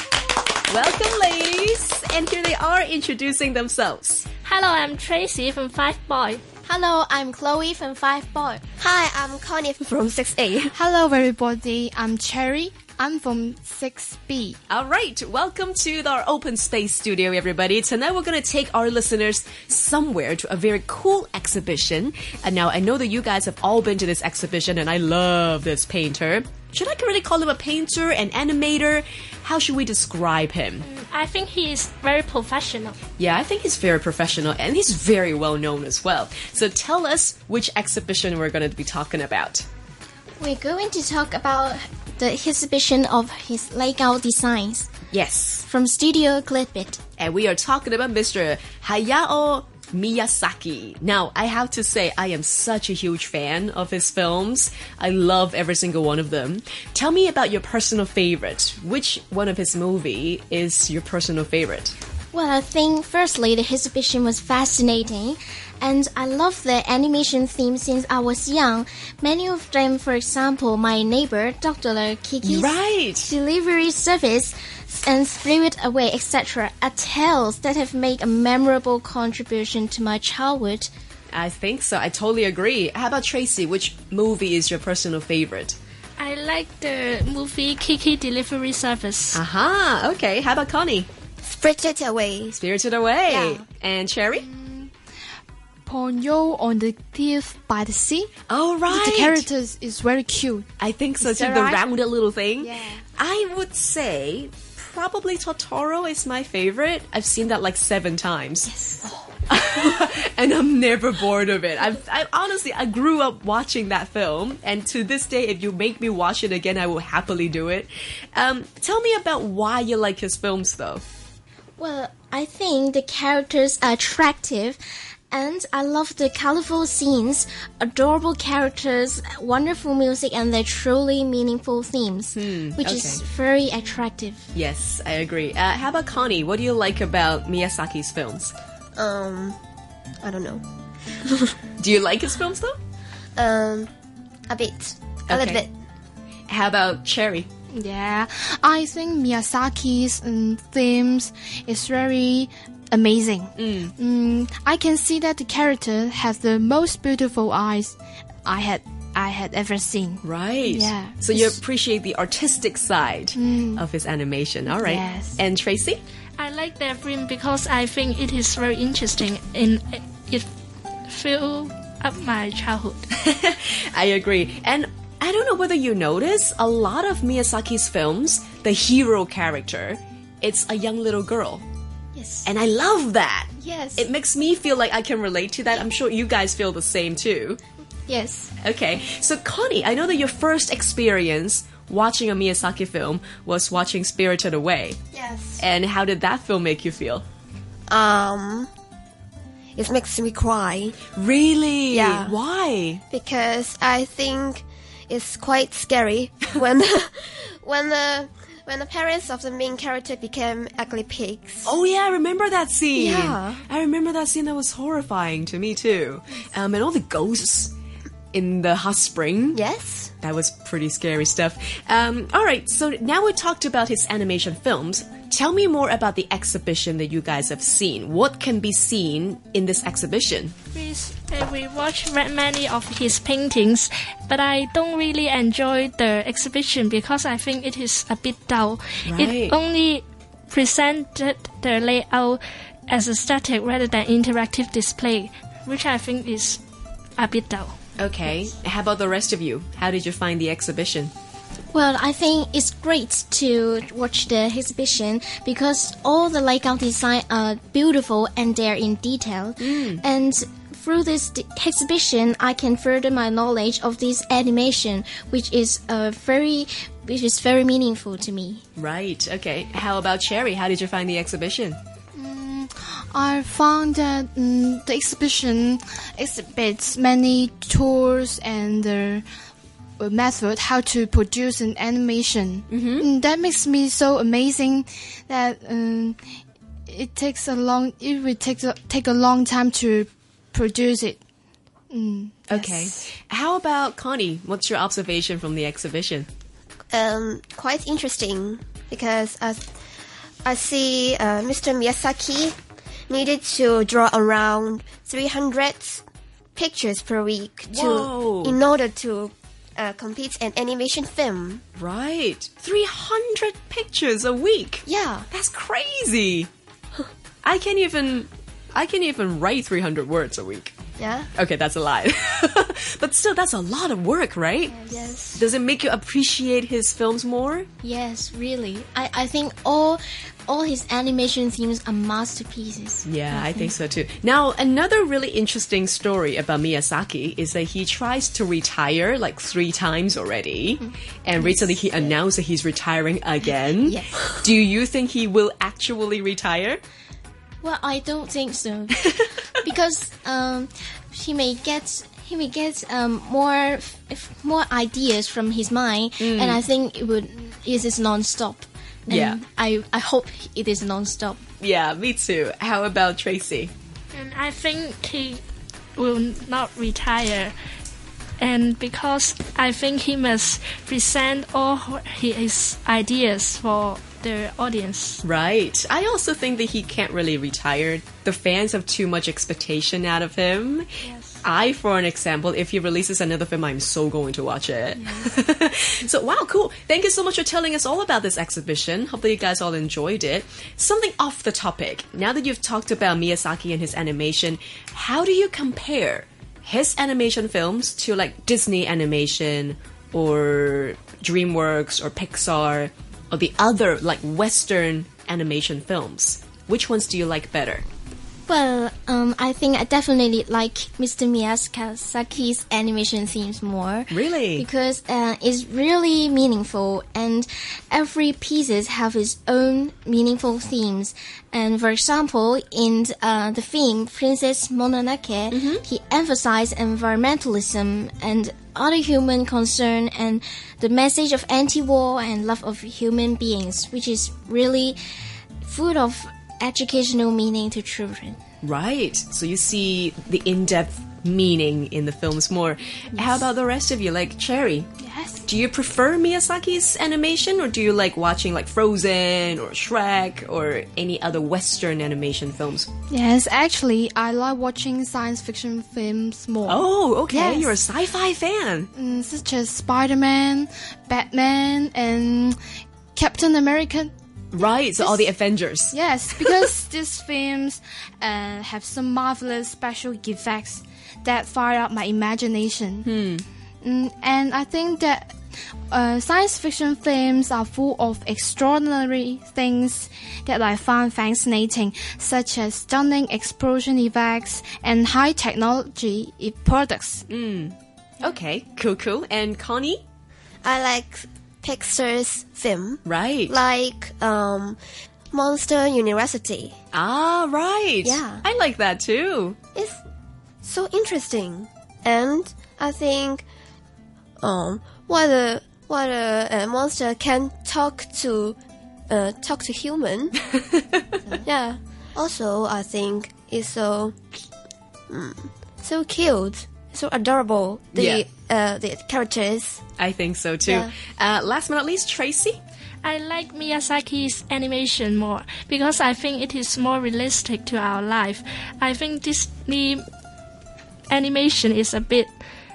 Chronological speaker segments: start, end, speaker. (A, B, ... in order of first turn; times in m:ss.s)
0:00.7-0:04.3 A
0:04.4-0:06.4 B
0:06.6-0:08.6 C
0:08.8-0:10.7 D
0:10.7-0:14.6 E
0:14.7-0:30.8 A
0:30.8-0:33.0 B
0:33.2-0:39.7 A
0:40.4-0:44.9 C
0:45.1-0:45.7 A
0:45.7-0:47.0 C
0:47.2-1:01.9 A
1:02.3-1:20.9 C
1:12.4-1:13.3 A
1:21.3-1:25.8 A
1:26.2-1:29.4 B
1:29.3-1:31.1 A
1:31.4-1:32.6 D
1:32.6-1:34.5 A
1:33.3-1:33.6 D
1:34.4-1:34.9 E
1:35.9-1:38.3 E
1:38.5-1:39.4 A
1:38.9-1:40.7 E
1:40.8-1:48.8 A
1:41.2-1:41.8 E
1:42.6-1:43.0 E
1:49.5-2:01.0 A
2:01.8-2:04.8 C
2:05.3-2:14.5 C
2:12.4-2:13.2 A
2:14.5-2:18.5 A
2:19.0-2:19.6 D
2:20.2-2:21.6 D
2:21.8-2:22.8 A
2:23.4-2:23.9 D
2:24.5-2:25.7 D
2:25.3-2:25.6 A
2:26.5-2:27.5 A
2:27.7-2:41.6 E
2:33.6-2:33.9 A
2:40.2-2:46.0 A
2:43.4-2:43.8 E
2:44.7-2:45.4 E
2:46.4-2:50.5 B
2:51.1-2:53.1 B
2:53.2-3:01.6 A
3:02.2-3:02.5 C
3:02.4-3:07.6 A
3:03.6-3:04.1 C
3:08.1-3:08.5 C
3:08.6-3:15.0 A
3:15.1-3:15.6 D
3:15.6-3:17.2 A
3:17.9-3:18.7 D
3:19.8-3:21.0 D
3:21.2-3:23.0 A
3:21.9-3:22.4 D
3:23.1-3:31.8 D
3:31.6-3:37.7 A
3:33.0-3:33.6 D
3:38.3-3:39.6 A
3:39.5-3:40.1 D
3:40.2-3:50.6 A
3:50.7-4:06.6 B
3:59.1-3:59.6 A
4:07.2-4:07.8 B
4:08.0-4:11.1 A
4:11.7-4:28.6 C
4:19.6-4:20.0 A
4:28.8-4:31.8 A
4:32.2-4:39.2 E
4:40.0-4:46.2 E
4:42.7-4:43.1 A
4:46.9-4:51.2 E
4:51.9-4:52.9 E
4:52.5-4:56.3 A
4:56.9-4:59.7 D
5:00.4-5:02.6 D
5:03.1-5:06.0 D
5:06.6-5:11.6 D
5:07.7-5:08.6 A
5:11.8-5:16.5 A
5:14.8-5:15.3 D
5:17.4-5:20.7 A
5:21.0-5:21.3 D
5:21.4-5:27.7 A
5:24.7-5:25.2 C
5:24.9-5:25.4 D
5:27.8-5:33.7 C
5:33.1-5:46.8 A
5:40.8-5:42.2 C
5:43.8-5:44.2 C
5:47.6-5:49.1 C
5:49.6-6:01.4 C
5:56.2-5:56.6 A
5:59.1-5:59.4 A
6:01.6-6:03.7 A
6:04.1-6:05.4 B
6:06.0-6:07.5 B
6:08.4-6:15.2 B
6:15.2-6:20.9 A
6:21.4-6:47.8 A
6:48.5-7:15.0 C
6:54.1-6:54.7 A
7:05.5-7:05.8 A
7:15.6-7:18.4 C
7:18.6-7:24.9 A
7:25.0-7:25.4 E
7:25.4-7:32.9 A
7:33.1-7:37.8 E
7:36.7-7:38.9 A
7:38.9-7:42.6 E
7:43.2-7:44.1 E
7:44.5-7:46.6 A
7:45.0-7:45.3 E
7:45.9-7:53.1 E
7:53.0-7:53.4 A
7:53.8-7:55.4 E
7:55.9-8:07.2 E
8:07.3-8:10.0 A
8:10.6-8:14.8 D
8:13.0-8:13.5 A
8:15.3-8:16.8 D
8:16.9-8:19.6 A
8:18.0-8:18.5 D
8:20.6-8:23.4 D
8:24.4-8:28.6 D
8:29.1-8:30.4 D
8:30.5-8:31.2 A
8:31.2-8:34.2 D
8:35.1-8:39.8 D
8:38.0-8:38.2 A
8:40.0-8:42.6 A
8:40.6-8:40.9 D
8:43.0-8:50.0 B
8:51.1-8:52.3 B